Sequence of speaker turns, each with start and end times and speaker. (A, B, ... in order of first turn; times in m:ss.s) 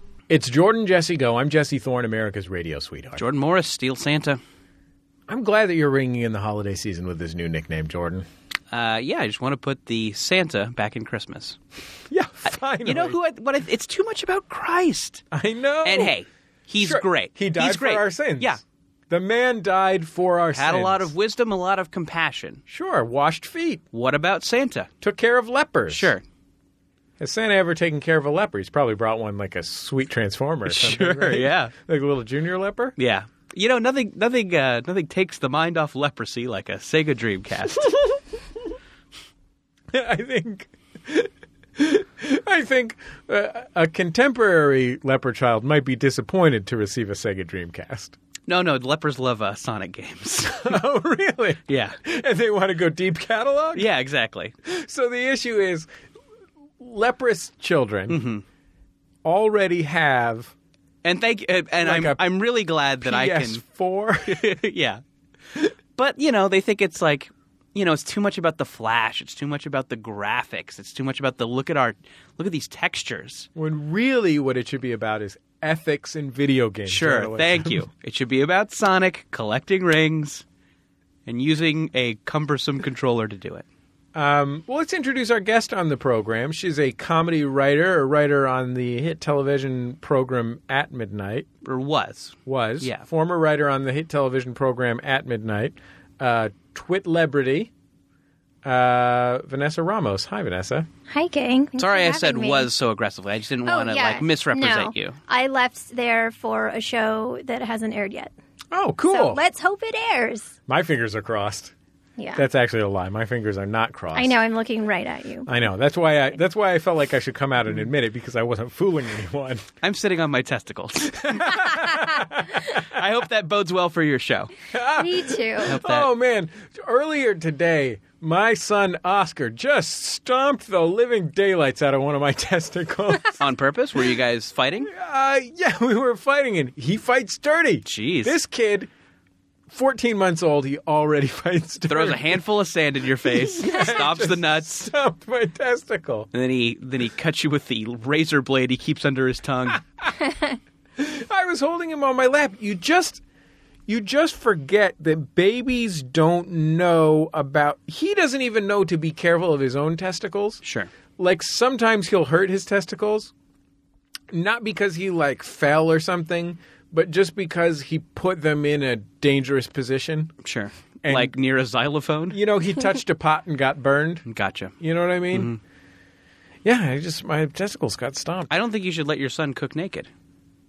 0:00.3-0:03.2 A
0:03.2-0:04.4 B
0:05.3-0:08.2 A
0:08.7-0:11.6 B
0:12.1-0:13.2 A
0:12.8-0:15.2 B
0:15.3-0:16.1 A
0:15.8-0:18.6 B
0:16.8-0:21.1 A
0:20.5-0:22.6 B
0:22.7-0:23.8 A
0:23.9-0:24.9 B
0:25.0-0:26.1 A
0:25.9-0:26.2 B
0:27.2-0:33.0 A
0:30.6-0:31.7 B
0:33.0-0:37.8 B
0:39.9-0:48.2 A
0:48.5-0:50.8 B
0:50.5-0:53.9 A
0:51.7-0:51.9 B
0:53.7-0:54.5 B
0:54.6-0:55.9 A
0:56.8-0:58.2 A
0:58.1-0:58.4 B
0:59.2-1:00.5 A
1:01.0-1:03.6 B
1:01.8-1:02.2 A
1:03.0-1:04.5 A
1:04.3-1:05.0 B
1:05.5-1:13.5 B
1:13.6-1:17.8 A
1:16.9-1:20.4 B
1:21.2-1:23.6 B
1:24.1-1:31.5 A
1:31.6-1:33.0 B
1:32.4-1:37.7 A
1:38.6-1:40.9 A
1:41.1-1:42.7 C
1:41.8-1:45.2 B
1:43.6-1:48.3 C
1:48.7-1:49.4 A
1:49.1-1:50.5 C
1:50.7-1:51.7 A
1:52.2-1:52.4 C
1:52.4-1:54.3 A
1:54.1-1:55.5 C
1:55.4-1:59.7 A
1:59.8-2:04.5 B
2:01.4-2:03.0 A
2:04.7-2:13.4 A
2:05.0-2:05.7 C
2:05.6-2:06.1 B
2:13.4-2:14.9 B
2:14.8-2:18.9 A
2:17.8-2:18.3 B
2:19.7-2:22.4 A
2:21.9-2:24.9 B
2:23.2-2:26.3 A
2:26.3-2:29.8 B
2:31.0-2:33.2 A
2:33.9-2:40.6 A
2:40.6-2:40.9 B
2:41.2-2:43.3 A
2:44.3-2:50.3 A
2:50.4-2:52.4 B
2:51.0-2:51.3 A
2:52.3-2:54.2 A
2:54.3-2:54.7 B
2:54.8-2:55.5 A
2:55.3-2:55.6 B
2:56.6-2:58.5 A
2:58.5-3:00.1 B